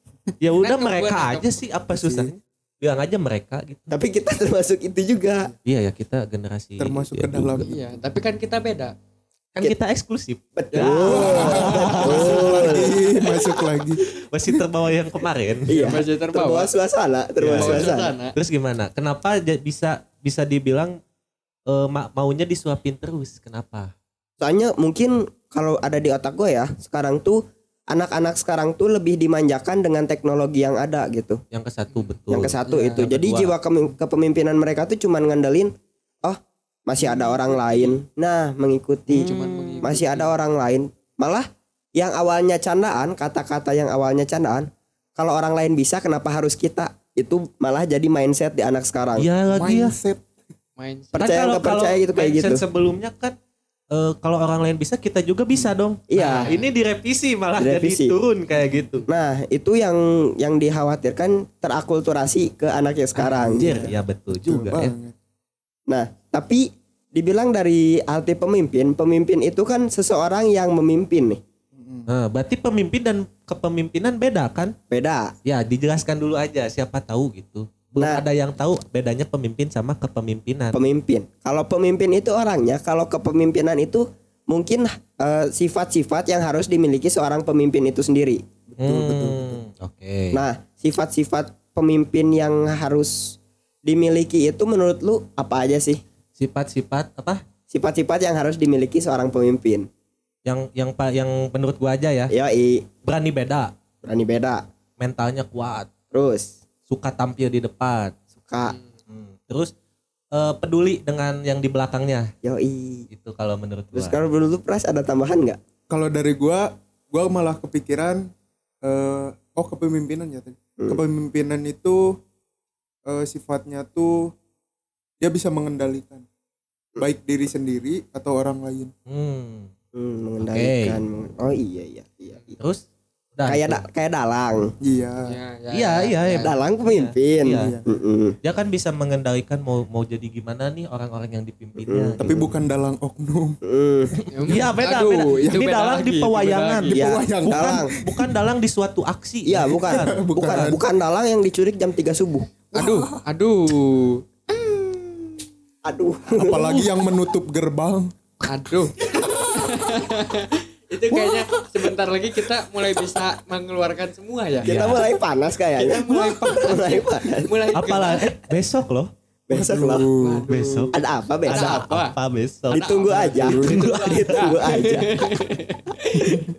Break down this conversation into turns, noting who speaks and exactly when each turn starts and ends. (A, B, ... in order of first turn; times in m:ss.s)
0:00.4-0:03.9 A
0:00.6-0:01.6 B
0:02.0-0:02.3 C
0:03.9-0:05.5 D
0:05.7-0:07.6 A
0:06.8-0:08.0 C
0:07.6-0:08.9 B
0:09.5-0:13.5 A
0:10.6-0:13.0 D
0:10.7-0:11.6 B
0:11.1-0:14.0 C
0:14.0-0:16.0 A
0:15.7-0:18.1 D
0:15.7-0:16.7 B
0:17.4-0:20.9 A
0:17.6-0:18.3 B
0:21.7-0:23.9 A
0:24.4-0:31.4 D
0:31.5-0:33.5 A
0:31.9-0:33.0 B
0:32.3-0:35.7 D
0:36.2-0:49.3 D
0:37.0-0:38.0 B
0:39.1-0:39.9 A
0:39.1-0:40.3 B
0:49.2-0:49.9 A
0:49.5-0:50.2 C
0:50.8-0:51.2 B
0:51.1-0:52.6 D
0:51.2-0:53.3 A
0:53.9-0:59.0 A
0:56.1-0:56.5 D
0:56.2-0:56.6 B
0:57.6-0:58.1 D
0:58.5-0:59.0 C
0:59.1-1:03.9 D
1:03.2-1:04.9 A
1:03.6-1:05.1 C
1:05.9-1:11.4 D
1:11.7-1:12.1 C
1:12.1-1:14.7 A
1:14.9-1:15.3 D
1:15.4-1:20.8 A
1:18.0-1:18.2 D
1:20.7-1:28.4 D
1:28.7-1:29.6 C
1:28.8-1:30.4 A
1:30.3-1:36.0 D
1:36.4-1:37.4 A
1:37.7-1:39.9 D
1:40.4-1:42.3 A
1:42.3-1:42.9 D
1:43.0-1:43.7 A
1:44.0-1:44.6 D
1:45.0-1:45.9 A
1:46.1-1:46.5 D
1:46.9-1:48.3 A
1:48.5-1:48.8 D
1:49.1-1:49.7 A
1:50.3-1:52.3 A
1:52.4-1:53.1 D
1:53.1-1:54.2 A
1:53.9-1:55.6 D
1:55.9-1:58.3 C
1:58.8-2:02.1 C
2:03.1-2:04.3 C
2:05.2-2:06.2 C
2:07.0-2:08.9 C
2:09.1-2:09.7 A
2:09.9-2:12.6 D
2:10.4-2:11.0 A
2:13.4-2:13.8 A
2:13.4-2:14.7 D
2:14.8-2:15.3 C
2:15.3-2:16.5 B
2:15.7-2:17.7 A
2:16.4-2:18.4 D
2:17.6-2:17.8 C
2:18.4-2:22.5 A
2:21.8-2:22.2 D
2:22.2-2:23.6 C
2:23.6-2:24.1 D
2:24.3-2:27.0 B
2:24.5-2:30.6 A
2:26.9-2:27.9 D
2:26.9-2:28.5 C
2:29.5-2:32.5 D
2:29.6-2:30.8 C
2:32.7-2:34.2 B
2:32.8-2:33.2 C
2:35.8-2:36.9 D
2:36.4-2:38.1 C
2:38.5-2:44.7 B
2:39.0-2:40.1 C
2:41.1-2:41.4 C
2:42.5-2:43.1 C
2:44.6-2:45.1 A
2:44.6-2:47.5 D
2:45.7-2:48.3 B
2:47.8-2:49.1 A
2:49.5-2:50.1 D
2:49.5-2:50.5 C
2:50.2-2:50.9 B
2:50.5-2:50.9 A
2:50.9-2:51.8 D
2:51.4-2:52.8 A
2:51.5-2:52.2 B
2:52.7-2:55.1 D
2:52.7-2:56.4 B
2:53.3-2:53.8 C
2:53.7-2:54.3 A
2:56.2-2:56.5 C